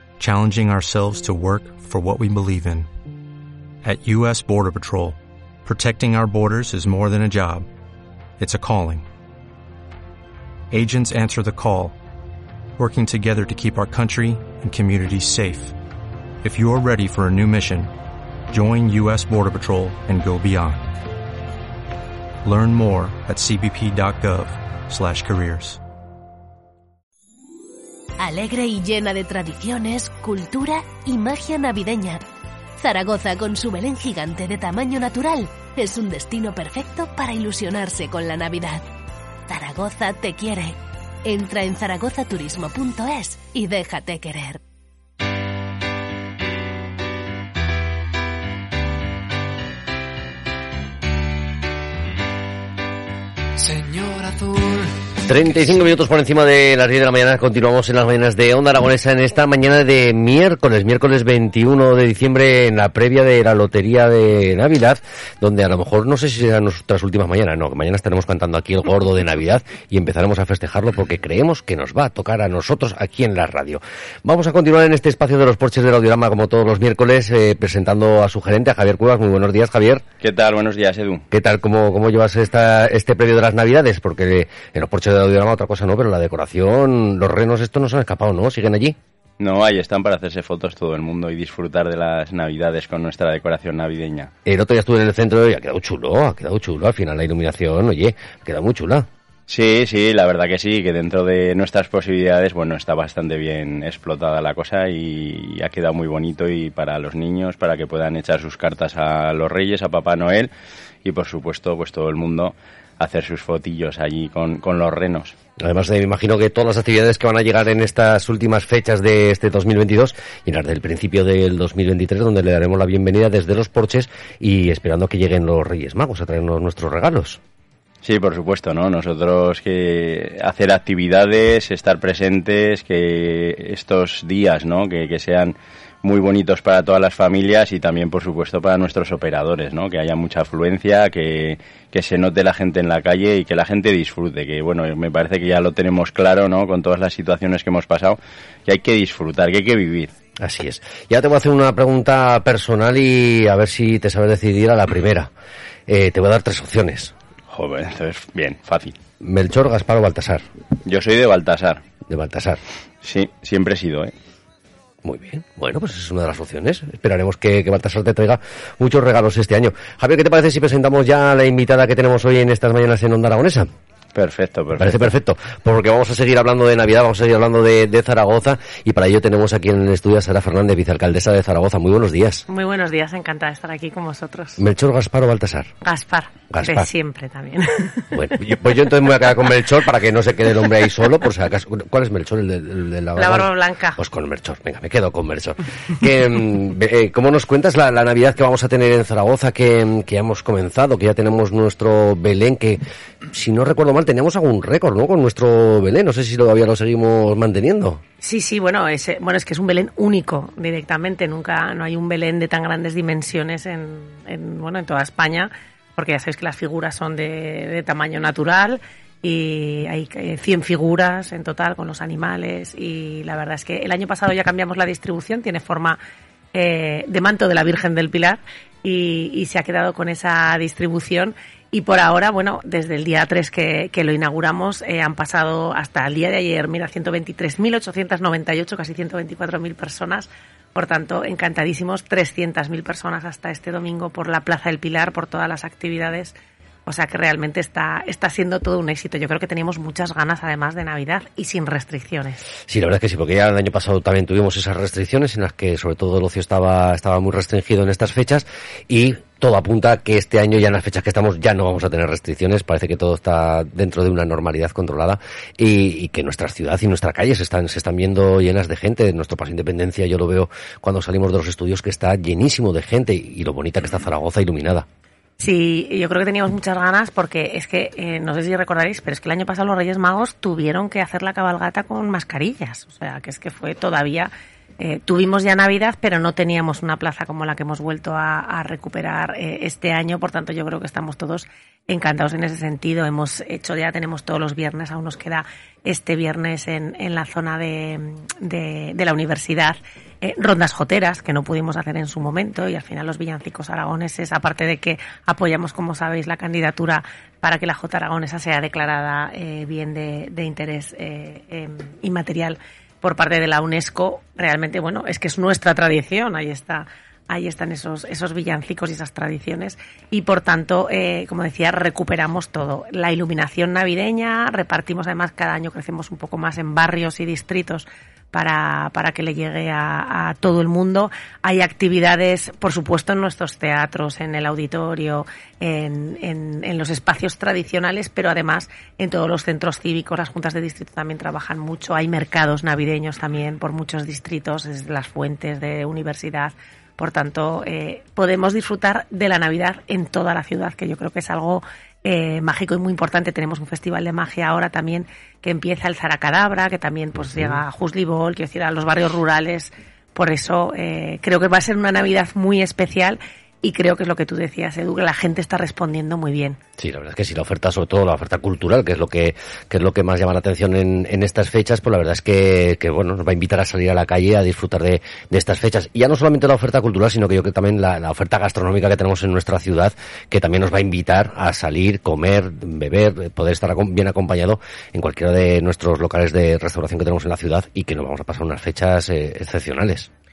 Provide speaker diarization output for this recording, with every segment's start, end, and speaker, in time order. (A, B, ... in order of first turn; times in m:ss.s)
0:00.2-0:02.9 A
0:03.8-0:07.6 A
0:08.4-0:09.0 A
0:10.7-0:12.0 A
0:12.8-0:15.7 A
0:16.4-0:17.9 A
0:18.5-0:20.9 A
0:22.4-0:25.8 A
0:28.2-0:32.2 B
0:32.8-0:38.8 B
0:39.5-0:44.6 B
0:55.2-1:20.0 C
1:20.2-1:21.2 D
1:21.3-1:29.0 C
1:29.4-1:34.3 D
1:34.4-1:39.1 C
1:39.5-1:50.5 D
1:51.0-1:55.3 D
1:55.6-2:07.4 C
2:08.0-2:30.1 D
2:30.4-2:35.3 C
2:35.9-2:37.1 C
2:37.5-2:39.0 D
2:39.2-2:40.4 C
2:40.8-2:41.8 D
2:42.1-2:42.6 C
2:43.0-2:44.1 D
2:45.0-2:53.7 C
2:54.1-2:55.1 D
2:54.8-3:02.4 C
3:02.5-3:04.6 E
3:04.6-3:05.7 C
3:05.8-3:08.4 E
3:06.5-3:06.9 C
3:08.1-3:22.8 C
3:13.2-3:14.0 E
3:23.3-3:28.0 C
3:28.2-3:46.0 E
3:46.5-4:06.3 E
4:06.8-4:12.4 E
4:12.7-4:34.8 C
4:35.4-6:06.6 E
5:57.2-5:57.6 C
6:06.8-6:30.1 C